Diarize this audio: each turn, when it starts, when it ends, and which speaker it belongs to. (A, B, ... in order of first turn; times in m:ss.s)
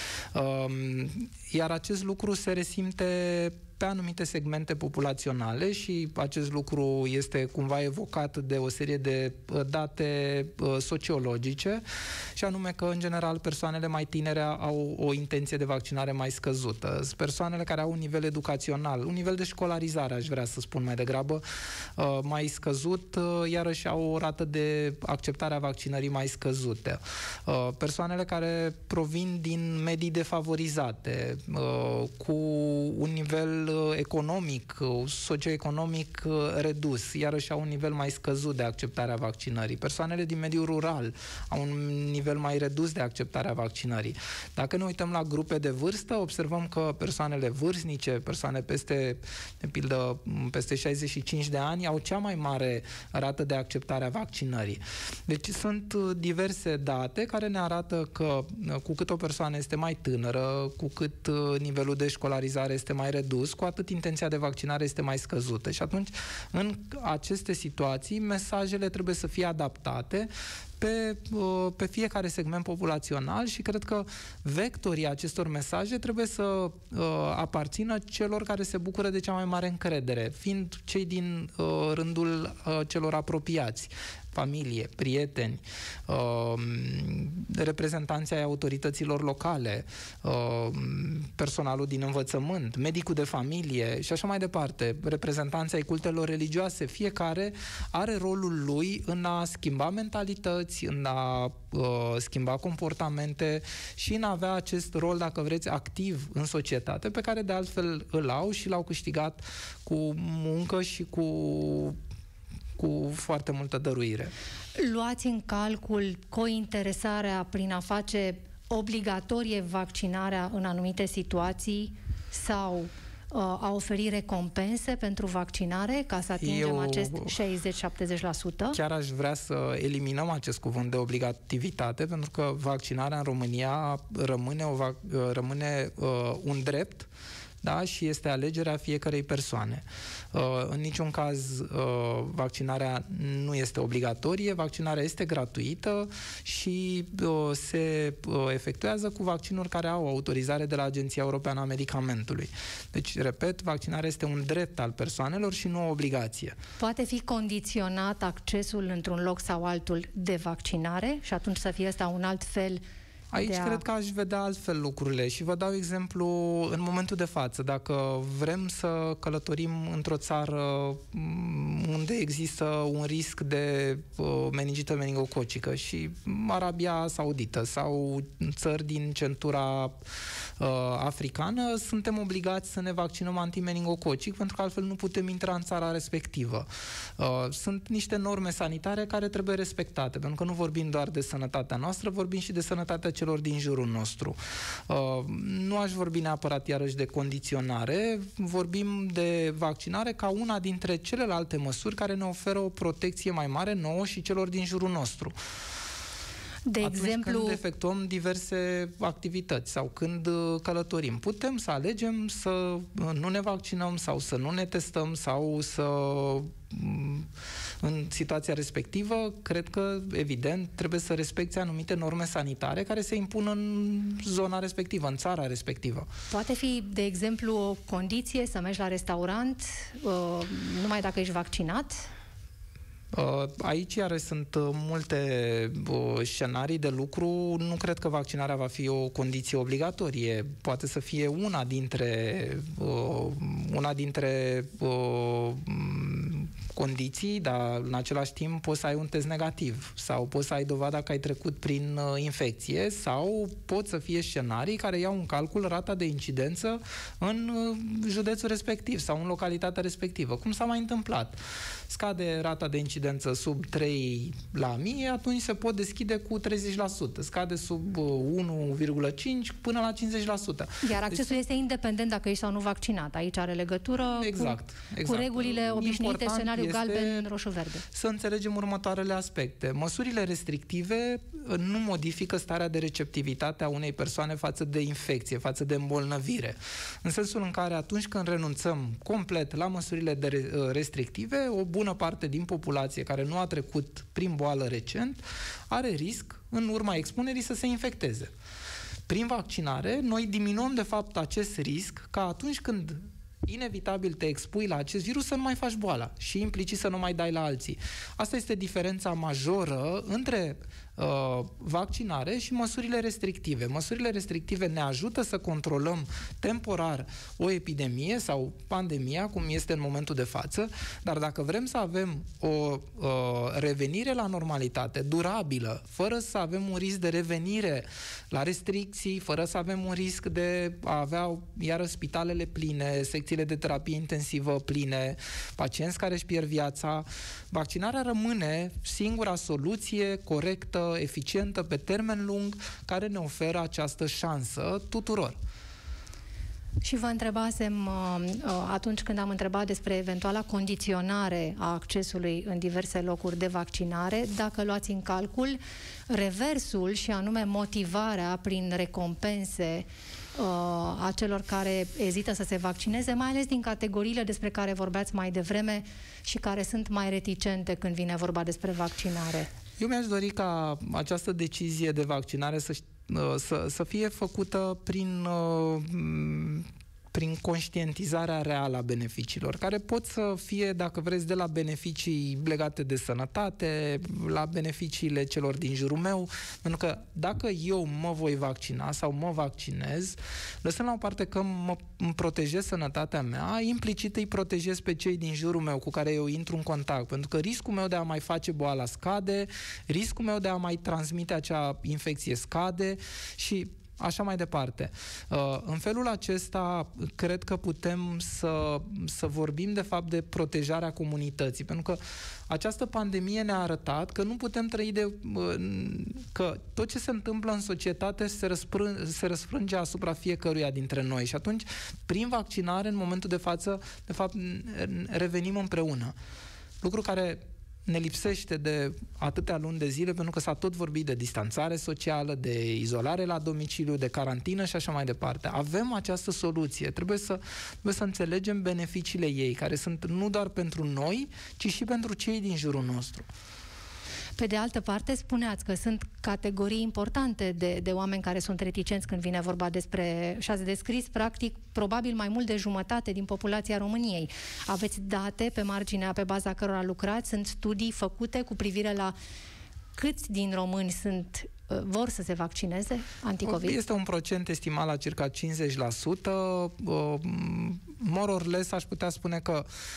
0:00.3-0:11.8 A
0:12.4-0:21.4 A
0:22.0-1:52.0 A
1:52.8-1:54.3 A
1:54.8-2:08.8 B
2:06.4-2:07.3 A
2:08.7-2:17.1 A
2:17.6-2:36.6 A
2:36.8-2:42.8 B
2:43.3-3:00.0 A
2:43.4-2:43.8 B
3:00.6-3:14.4 A
3:14.9-3:25.4 A
3:26.7-3:27.6 B
3:26.8-3:37.3 A
3:37.8-3:46.1 A
3:46.3-3:52.1 B
3:53.1-4:31.3 A
4:30.8-4:37.8 B
4:34.2-4:37.3 A
4:37.9-4:58.3 A
4:59.1-5:45.4 A
5:46.8-6:09.5 B
6:09.8-7:06.2 A
7:06.8-7:23.3 A
7:24.4-7:39.2 B
7:40.0-7:43.8 B
7:43.4-7:49.7 A